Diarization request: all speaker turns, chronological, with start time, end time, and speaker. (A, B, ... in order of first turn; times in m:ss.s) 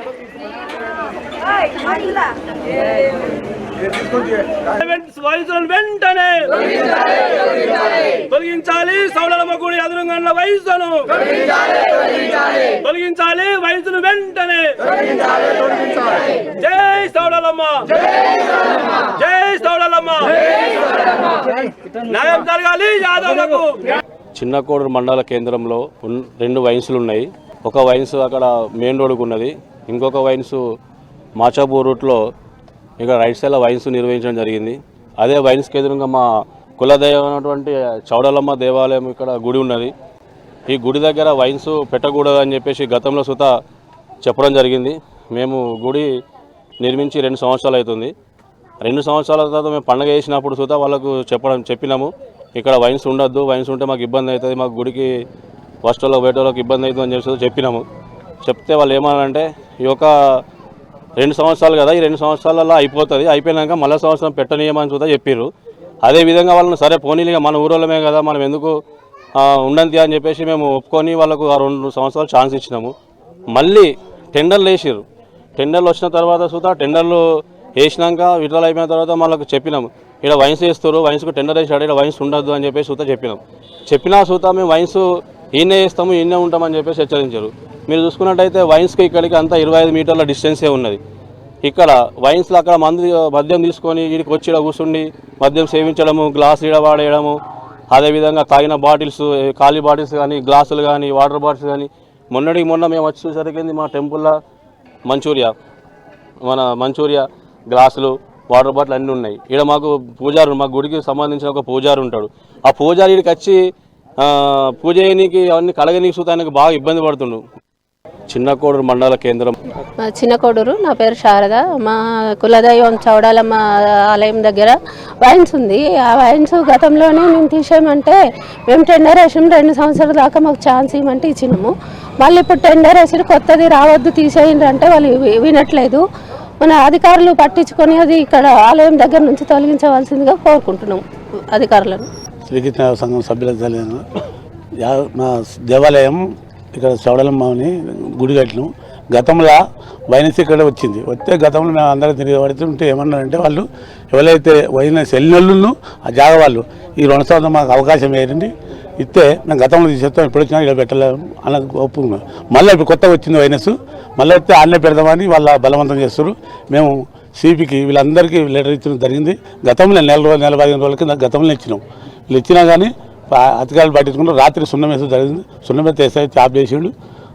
0:04.8-0:11.4 A
0:05.1-0:05.6 B
0:08.3-0:08.6 B
0:10.7-0:11.0 B
0:12.7-0:18.0 A
0:12.9-0:13.3 B
0:19.2-0:19.8 B
0:19.2-0:20.4 A
0:22.1-0:22.6 B
0:22.1-0:23.6 A
0:24.4-0:30.6 B
0:31.4-0:32.2 B
0:33.0-0:36.2 B
0:36.8-0:39.9 B
0:40.7-0:43.5 B
0:44.2-0:46.0 B
0:46.8-0:48.1 B
0:48.8-0:55.1 B
0:55.8-0:57.8 B
0:58.4-1:00.1 B
1:01.2-1:05.5 B
1:06.0-1:08.8 B
1:09.4-1:12.9 B
1:13.5-1:15.0 B
1:15.6-1:17.2 B
1:17.8-1:31.0 B
1:31.6-1:37.3 B
1:37.9-1:44.3 B
1:45.1-1:45.5 B
1:46.4-1:53.6 B
1:54.2-1:57.4 B
1:58.3-1:59.6 B
2:00.1-2:03.6 C
2:04.1-2:08.2 C
2:08.7-2:16.0 C
2:16.6-2:22.1 C
2:22.4-2:24.0 D
2:24.8-2:26.2 D
2:26.7-2:29.6 D
2:30.1-2:56.9 D